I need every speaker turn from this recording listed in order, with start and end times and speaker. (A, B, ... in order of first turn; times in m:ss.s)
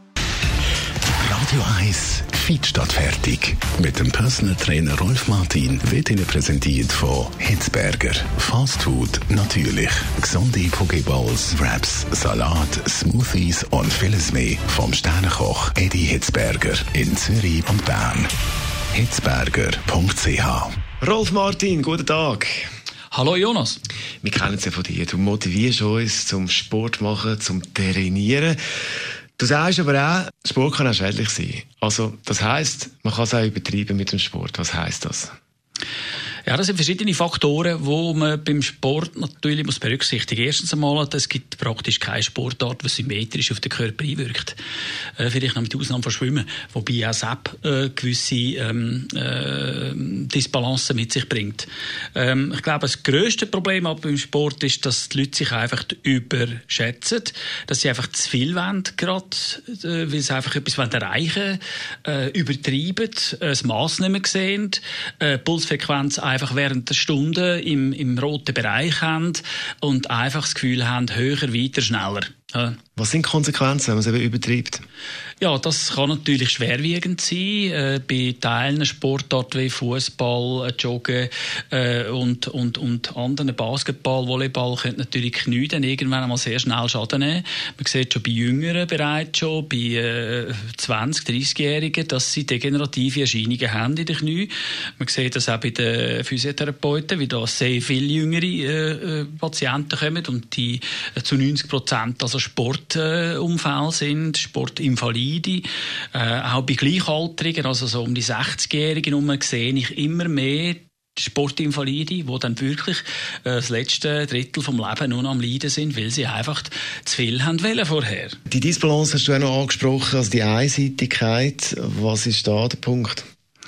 0:01.2-0:18.3 A
0:18.9-0:20.8 A
0:21.0-0:22.7 B
0:23.1-0:23.8 C
0:24.2-0:28.6 B
0:29.4-0:35.3 B
0:36.5-0:44.6 C
0:45.2-1:12.8 C
1:13.0-1:14.8 B
1:15.4-1:58.4 C
1:58.5-2:03.2 B